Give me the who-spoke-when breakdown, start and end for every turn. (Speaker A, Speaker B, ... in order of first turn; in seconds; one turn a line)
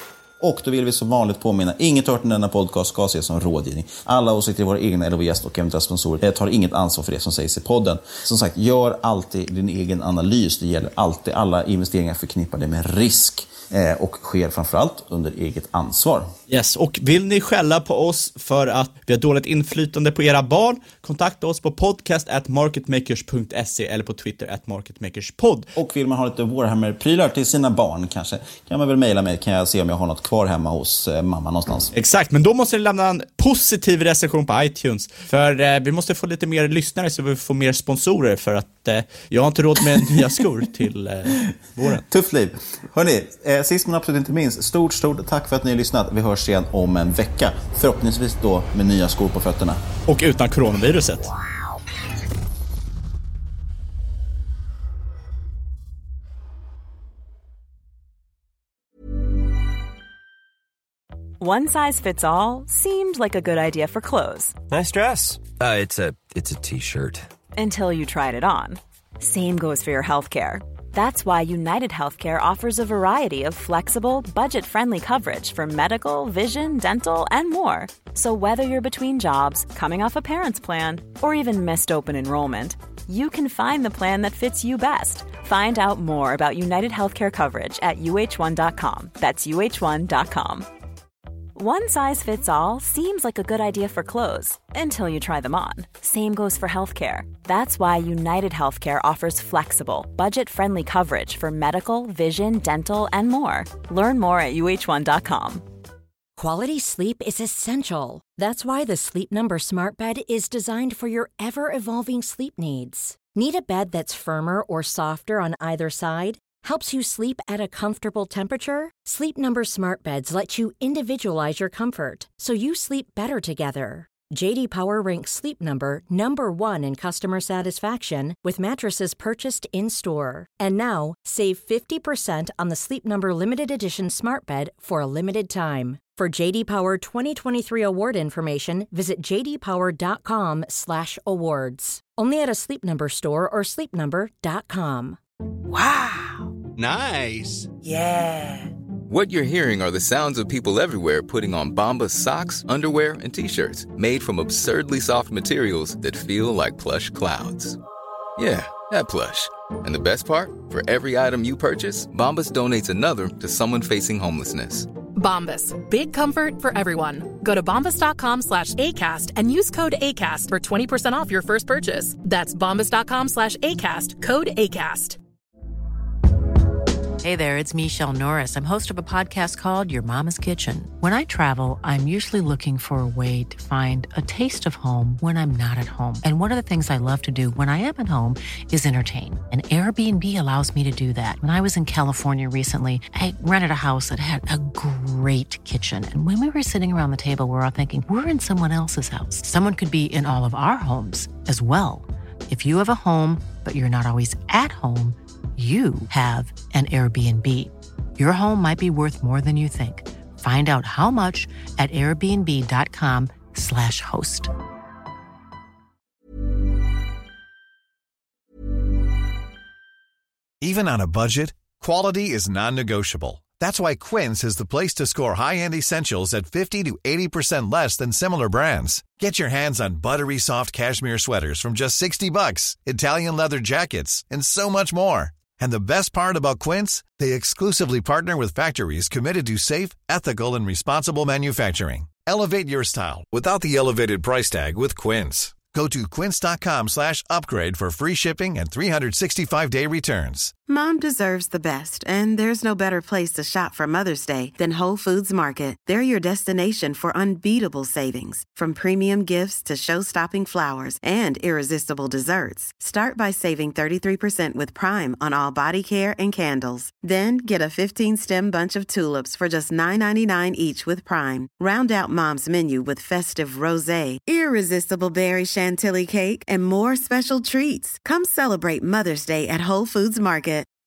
Speaker A: 0.4-16.3
Speaker B: 16.5-25.7
Speaker A: 25.8-31.9
Speaker B: 31.9-42.0
Speaker A: 42.0-49.8
Speaker B: 50.1-51.3
Speaker C: 61.4-64.6
Speaker D: 64.7-67.2
Speaker C: 67.5-90.7
Speaker C: 91.5-105.6
Speaker E: 106.4-145.2
Speaker F: 146.8-147.7
Speaker G: 149.1-157.8
Speaker G: 158.4-164.9
Speaker H: 165.1-175.2
Speaker I: 177.2-214.5
Speaker F: 220.6-250.5
Speaker J: 250.7-280.7